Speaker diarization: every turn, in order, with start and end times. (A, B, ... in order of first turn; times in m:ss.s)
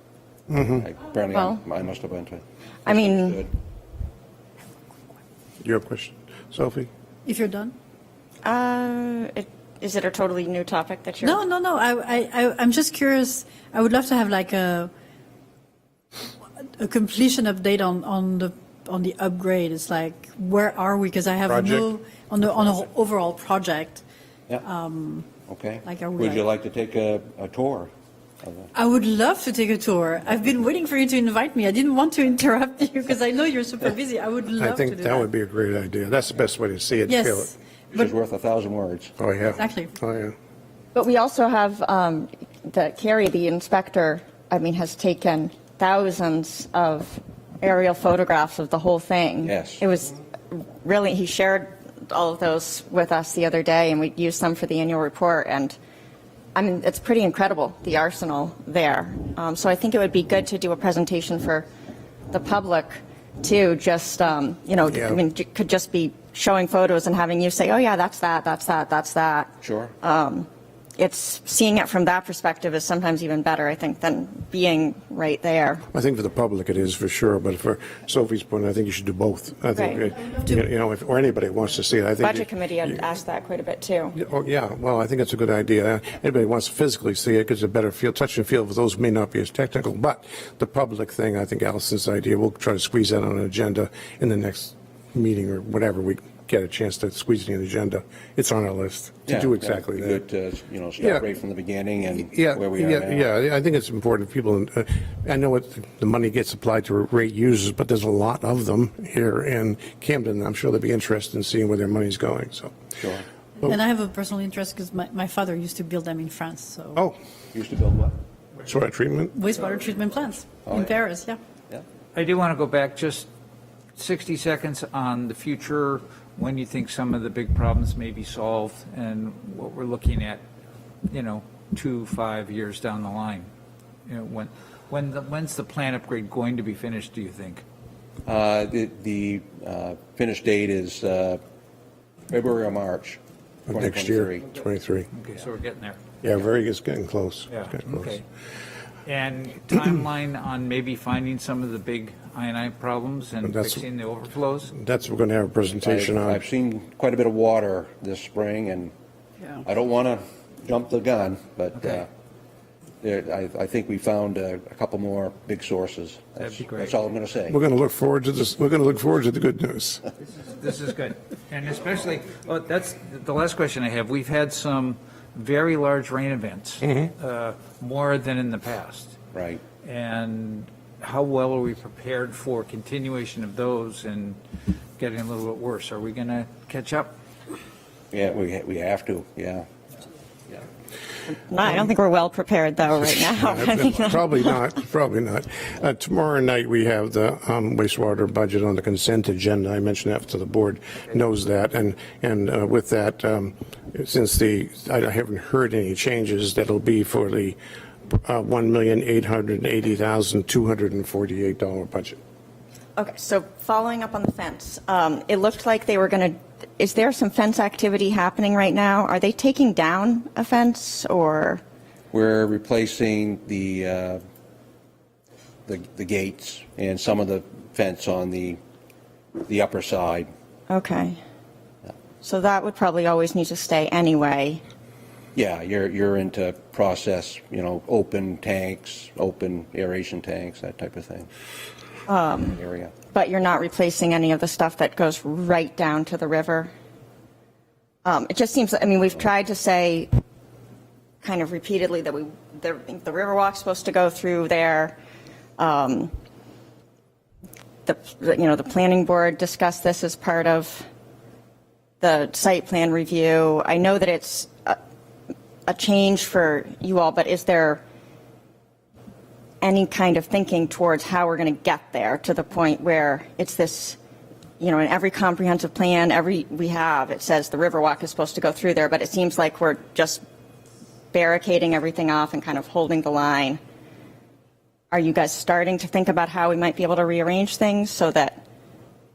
0:00.5-0:00.9 A
0:00.7-0:03.5 B
0:01.3-0:01.6 C
0:02.8-0:03.4 C
0:05.6-0:06.9 A
0:07.2-0:07.7 D
0:08.4-0:11.4 C
0:11.2-0:14.9 D
0:16.7-0:24.0 D
0:21.5-0:21.9 A
0:24.6-0:25.3 D
0:25.5-0:27.9 B
0:25.8-0:26.4 D
0:28.4-0:28.7 B
0:28.7-0:35.3 D
0:34.6-0:37.5 A
0:37.1-0:38.1 D
0:37.9-0:39.2 B
0:39.2-0:40.4 A
0:39.5-0:39.9 D
0:41.0-0:55.8 C
0:49.4-0:49.8 B
0:56.6-1:01.7 C
1:02.3-1:15.8 C
1:04.9-1:05.2 A
1:09.6-1:09.9 B
1:15.9-1:23.0 A
1:19.8-1:20.0 C
1:22.2-1:24.2 C
1:24.2-1:40.2 A
1:39.3-1:43.3 B
1:41.0-1:41.3 A
1:42.1-1:52.8 A
1:53.0-1:53.2 B
1:53.6-1:57.0 D
1:57.5-1:58.2 B
1:58.6-1:59.3 A
1:59.3-2:01.4 D
2:00.6-2:00.9 B
2:02.2-2:03.3 E
2:04.0-2:10.4 E
2:11.1-2:13.5 E
2:14.1-2:17.6 E
2:18.3-2:21.4 B
2:22.3-2:24.5 B
2:23.7-2:25.1 A
2:25.1-2:26.0 E
2:26.2-2:28.2 A
2:27.5-2:28.2 E
2:29.0-2:34.7 E
2:33.4-2:33.8 A
2:34.7-2:36.4 A
2:35.8-2:38.9 B
2:39.6-2:42.1 B
2:43.0-2:47.6 B
2:46.4-2:47.0 E
2:47.5-2:50.0 A
2:50.2-2:59.2 E
2:59.3-2:59.6 B
2:59.8-3:04.4 E
3:05.0-3:07.1 E
3:08.1-3:09.7 B
3:11.3-3:14.6 C
3:13.0-3:32.2 A
3:33.0-3:41.6 C
3:42.1-3:44.2 B
3:45.7-3:48.6 B
3:49.5-3:50.3 B
3:50.7-3:51.2 C
3:52.2-3:54.6 C
3:55.4-4:01.3 B
4:02.1-4:02.6 C
4:02.5-4:02.9 B
4:03.1-4:06.7 C
4:08.0-4:10.1 C
4:11.2-4:15.0 C
4:15.6-4:16.1 C
4:17.9-4:20.9 C
4:22.0-4:24.8 C
4:25.7-4:27.8 C
4:29.6-4:34.0 C
4:34.6-4:40.2 C
4:41.1-4:43.6 C
4:44.9-4:48.4 C